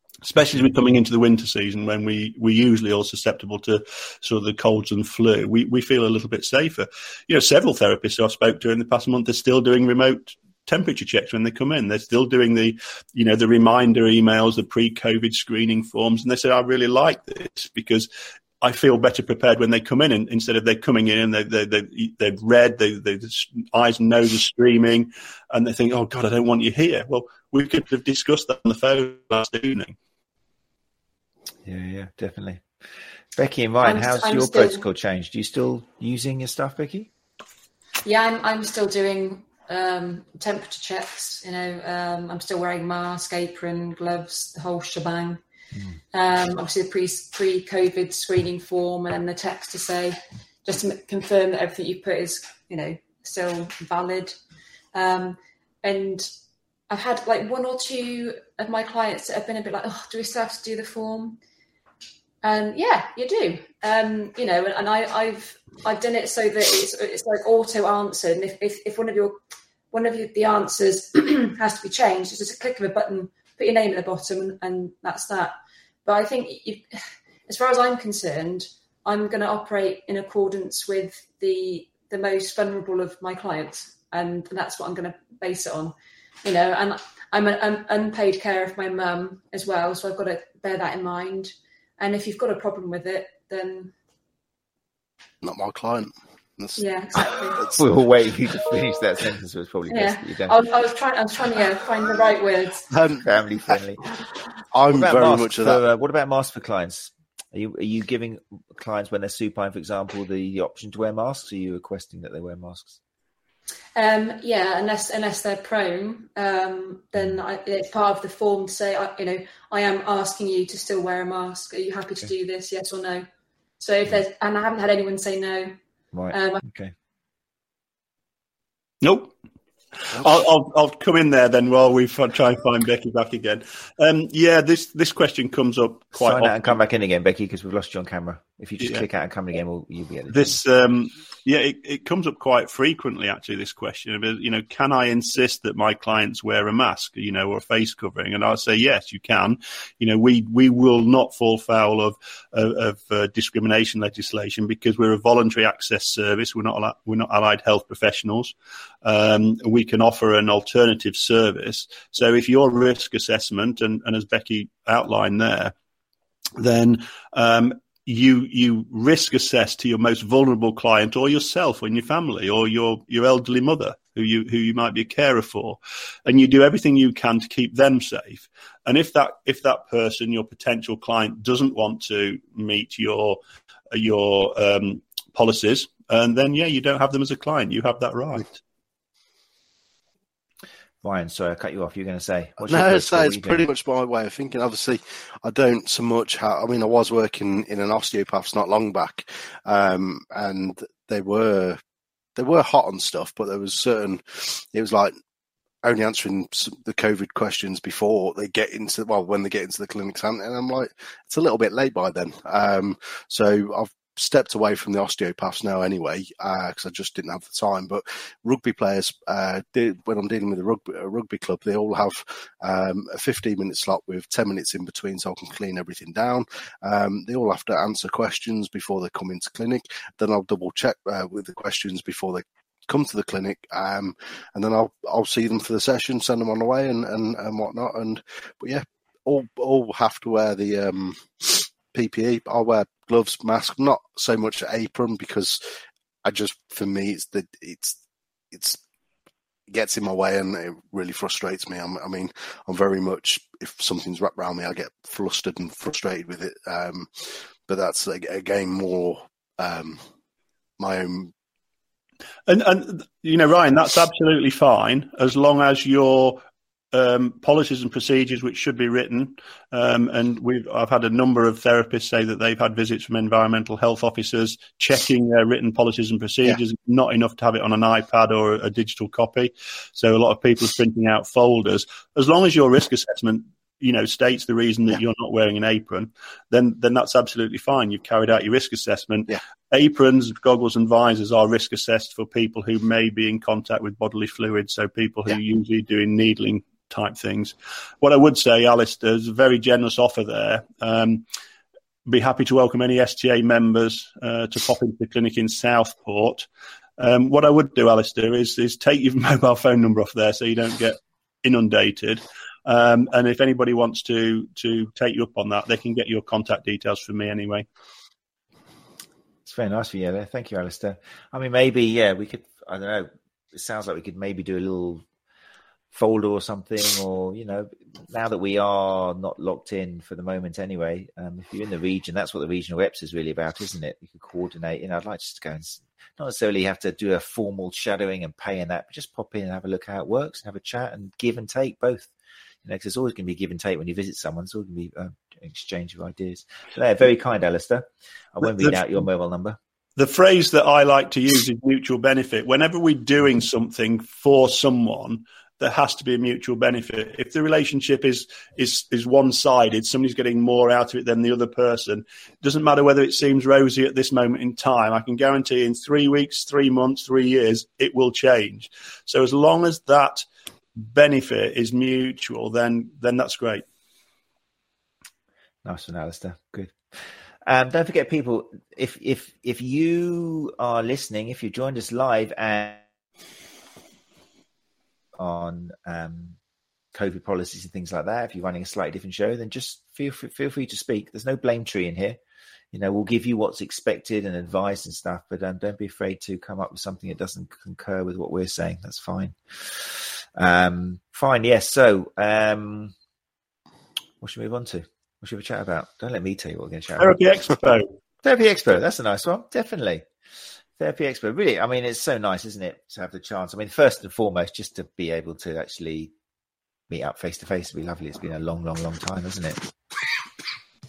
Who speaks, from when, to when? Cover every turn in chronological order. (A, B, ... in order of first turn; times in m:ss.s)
0:00.2-0:18.1 A
0:18.6-0:29.9 A
0:31.6-0:32.6 B
0:33.3-0:37.1 B
0:33.8-0:34.8 C
0:38.0-0:45.4 C
0:46.1-0:54.4 C
0:54.9-0:56.3 C
0:56.9-1:01.4 C
1:02.4-1:09.4 C
1:09.9-1:15.5 C
1:16.0-1:16.8 C
1:17.5-1:33.9 C
1:35.4-1:36.8 D
1:36.8-1:37.8 C
1:37.6-1:40.6 B
1:39.9-1:42.9 C
1:42.9-1:43.8 D
1:43.2-1:44.0 B
1:44.7-1:45.8 D
1:44.9-1:53.0 B
1:54.0-2:03.2 C
2:03.8-2:05.7 C
2:06.1-2:06.9 B
2:06.3-2:06.6 C
2:09.0-2:09.3 A
2:10.0-2:16.8 A
2:16.1-2:20.6 B
2:18.8-2:19.0 A
2:20.3-2:45.7 A
2:46.6-3:03.4 A
3:03.9-3:08.6 A
3:11.0-3:13.6 B
3:12.7-3:21.8 D
3:22.4-3:25.1 D
3:25.8-4:05.6 D
4:06.2-4:08.0 D
4:08.5-4:08.8 D
4:09.7-4:20.0 D
4:20.8-4:21.3 D
4:22.5-4:26.4 A
4:26.9-5:01.2 A
5:02.0-5:06.5 A
5:07.0-5:17.6 A
5:19.4-5:25.0 B
5:25.9-5:42.1 B
5:42.6-5:49.6 B
5:48.4-5:48.8 A
5:50.0-6:10.2 A
6:10.8-6:13.6 A
6:15.6-6:16.7 B
6:17.4-6:22.8 B
6:25.2-6:26.4 B
6:26.9-6:32.2 B
6:32.7-6:42.9 B
6:44.2-6:47.2 B
6:47.0-6:47.9 A
6:48.2-6:50.0 B
6:50.8-6:56.1 B
6:56.9-6:59.6 B